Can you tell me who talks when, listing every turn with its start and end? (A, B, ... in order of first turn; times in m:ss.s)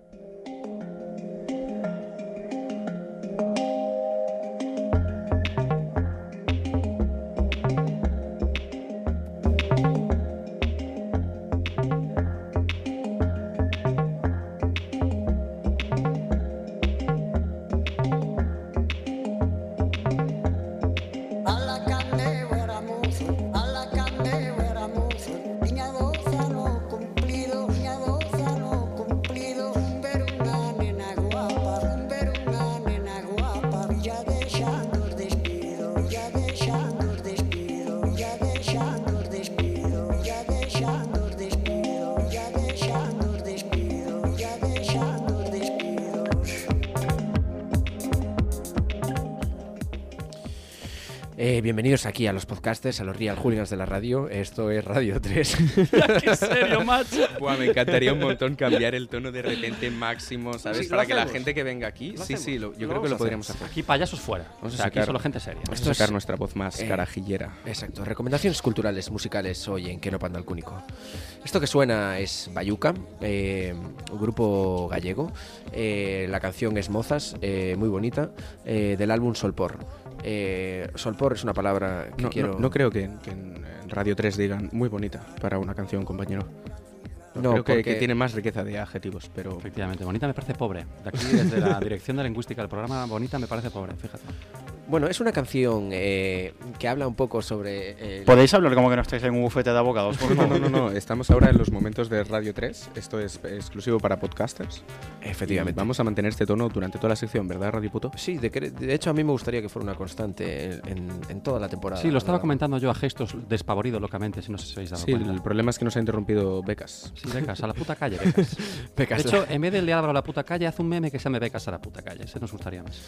0:21.5-0:46.7 A
0:51.4-0:56.9 B
0:55.9-0:57.4 C
0:57.3-1:03.7 D
1:00.6-1:01.4 B
1:02.2-1:03.6 B
1:03.5-1:05.8 C
1:04.6-1:07.6 D
1:05.7-1:06.2 B
1:06.8-1:07.1 B
1:07.6-1:10.8 B
1:11.4-1:22.8 B
1:22.2-1:26.5 D
1:27.4-1:28.1 B
1:27.4-1:29.6 D
1:29.6-1:34.3 C
1:34.9-1:38.4 B
1:38.3-1:40.8 E
1:40.2-1:44.8 D
1:45.2-1:45.9 B
1:45.4-1:48.2 D
1:48.2-1:52.5 B
1:52.0-1:55.4 C
1:55.0-1:57.2 D
1:57.2-1:58.6 C
1:58.7-1:59.5 B
1:59.2-2:03.0 C